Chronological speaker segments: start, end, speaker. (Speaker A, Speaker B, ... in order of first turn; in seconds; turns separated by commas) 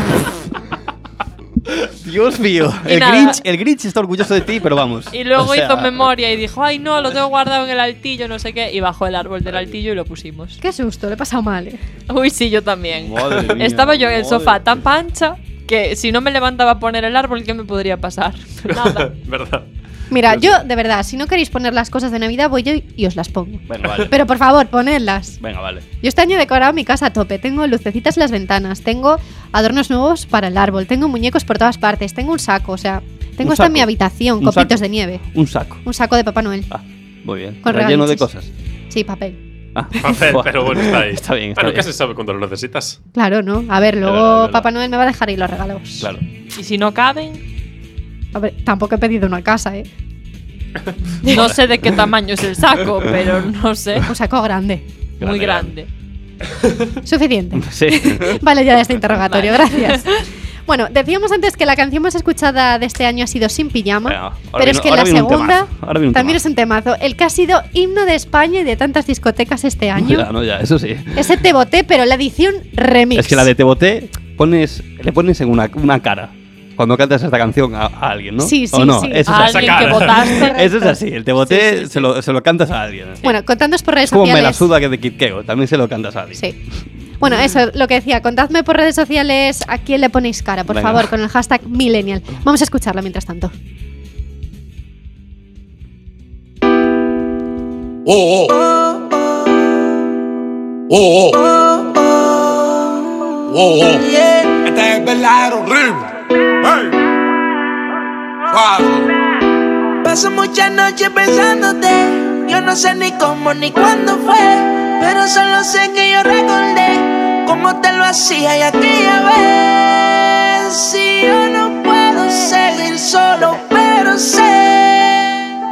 Speaker A: 2.0-6.1, Speaker B: 2.9-3.4, Speaker B: 5.1-10.6, Speaker A: 9.5-9.7, Speaker C: 10.6-11.8, Speaker B: 12.1-19.1, Speaker A: 12.9-14.8, Speaker D: 18.7-19.6, Speaker C: 20.1-25.4, Speaker A: 20.3-20.6, Speaker A: 23.7-24.2, Speaker A: 25.4-25.8, Speaker C: 26.0-35.2, Speaker A: 33.4-35.8, Speaker C: 35.8-36.7, Speaker A: 36.7-38.5, Speaker C: 37.6-38.2, Speaker C: 38.9-39.4, Speaker A: 39.7-41.9, Speaker D: 40.0-43.0, Speaker C: 43.1-46.1, Speaker A: 44.0-44.6, Speaker A: 46.0-46.2, Speaker B: 46.5-47.4, Speaker C: 48.3-49.9, Speaker B: 51.2-54.1, Speaker A: 51.3-51.6, Speaker C: 54.0-54.9, Speaker A: 55.2-55.7, Speaker B: 55.2-55.9, Speaker C: 57.0-70.3, Speaker A: 57.5-58.5, Speaker B: 59.2-60.2, Speaker A: 64.0-66.4, Speaker A: 69.9-71.4, Speaker C: 71.2-73.5, Speaker A: 73.1-83.3, Speaker C: 78.4-79.5, Speaker B: 79.2-80.5, Speaker D: 79.3-80.2, Speaker C: 80.2-82.0, Speaker C: 83.2-84.7, Speaker A: 84.0-86.5, Speaker C: 87.2-93.5, Speaker A: 90.7-91.1, Speaker E: 98.1-99.1, Speaker E: 100.9-102.7, Speaker E: 103.5-105.4, Speaker E: 110.0-125.3